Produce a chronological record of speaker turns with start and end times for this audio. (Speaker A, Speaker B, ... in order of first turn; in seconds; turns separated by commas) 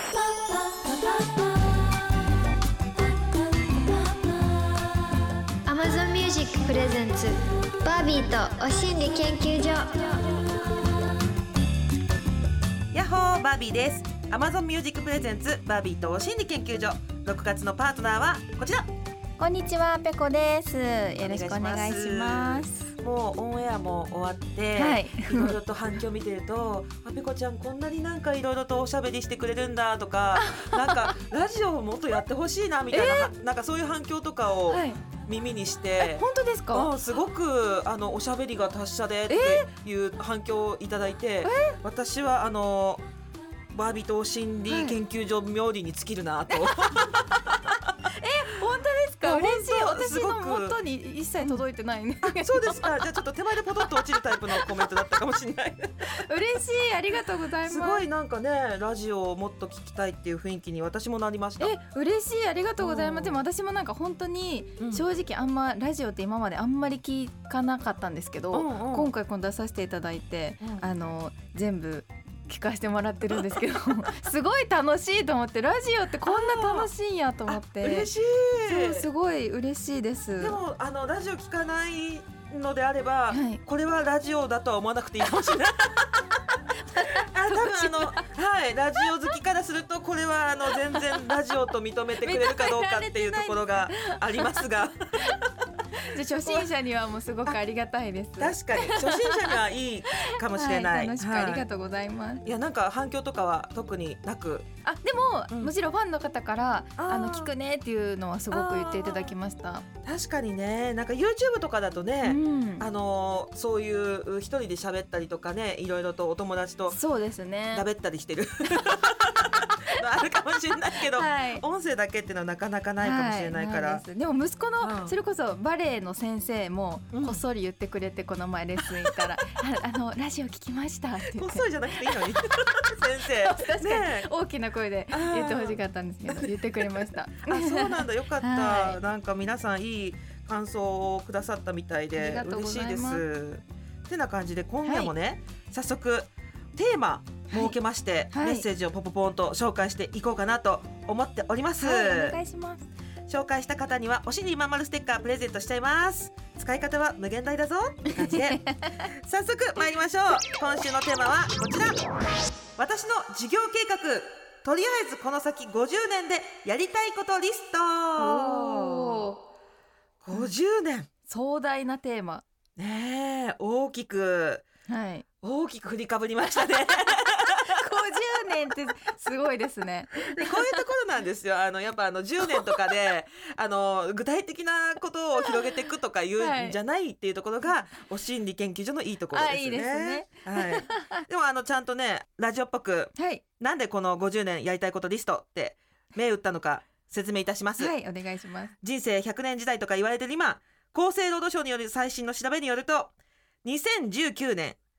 Speaker A: 5.7-10.4, Speaker B: 12.9-18.9, Speaker C: 19.4-22.9, Speaker B: 21.2-43.0, Speaker C: 24.8-25.6, Speaker C: 30.4-31.1, Speaker C: 32.9-33.3, Speaker C: 34.7-35.0, Speaker C: 36.0-36.9, Speaker C: 39.3-39.7, Speaker C: 41.4-41.8, Speaker B: 43.7-47.8, Speaker C: 44.7-45.0, Speaker C: 46.5-47.0, Speaker C: 48.1-53.0, Speaker B: 49.2-50.8, Speaker B: 52.2-56.1, Speaker C: 54.5-54.8, Speaker C: 56.0-58.0, Speaker B: 57.6-61.7, Speaker C: 61.6-78.1, Speaker B: 62.8-63.4, Speaker B: 64.8-65.0, Speaker B: 68.5-69.1, Speaker B: 76.2-76.9, Speaker B: 77.5-79.1, Speaker C: 78.7-80.6, Speaker B: 80.4-86.4, Speaker C: 83.3-83.6, Speaker C: 86.9-88.3, Speaker B: 87.3-95.6, Speaker C: 90.8-91.3, Speaker C: 92.2-94.6, Speaker C: 95.9-99.6, Speaker B: 96.3-96.7, Speaker B: 98.4-101.6, Speaker C: 100.1-102.4, Speaker B: 102.4-104.7, Speaker C: 104.8-109.8, Speaker B: 107.0-107.5, Speaker B: 108.5-109.3, Speaker B: 110.0-117.0, Speaker C: 112.2-112.9, Speaker C: 116.9-117.8, Speaker B: 117.7-124.0, Speaker C: 121.1-121.6, Speaker C: 123.0-132.2, Speaker B: 124.8-125.1, Speaker B: 127.1-127.4, Speaker B: 128.8-129.2, Speaker B: 131.2-134.3, Speaker C: 133.2-139.0, Speaker B: 135.1-152.4, Speaker C: 142.1-143.2, Speaker C: 144.8-145.1, Speaker C: 148.3-148.7, Speaker C: 151.8-152.9, Speaker B: 153.3-162.1, Speaker C: 158.1-159.1, Speaker B: 162.8-169.3, Speaker C: 168.2-169.4, Speaker B: 170.2-171.1, Speaker C: 171.3-172.4, Speaker B: 172.8-174.7, Speaker C: 174.9-175.2, Speaker B: 175.4-177.8, Speaker C: 177.4-180.8, Speaker B: 180.3-197.9, Speaker C: 186.4-186.8, Speaker C: 189.3-191.2, Speaker C: 193.2-193.4, Speaker C: 197.8-198.7, Speaker B: 198.8-203.1, Speaker B: 203.6-204.8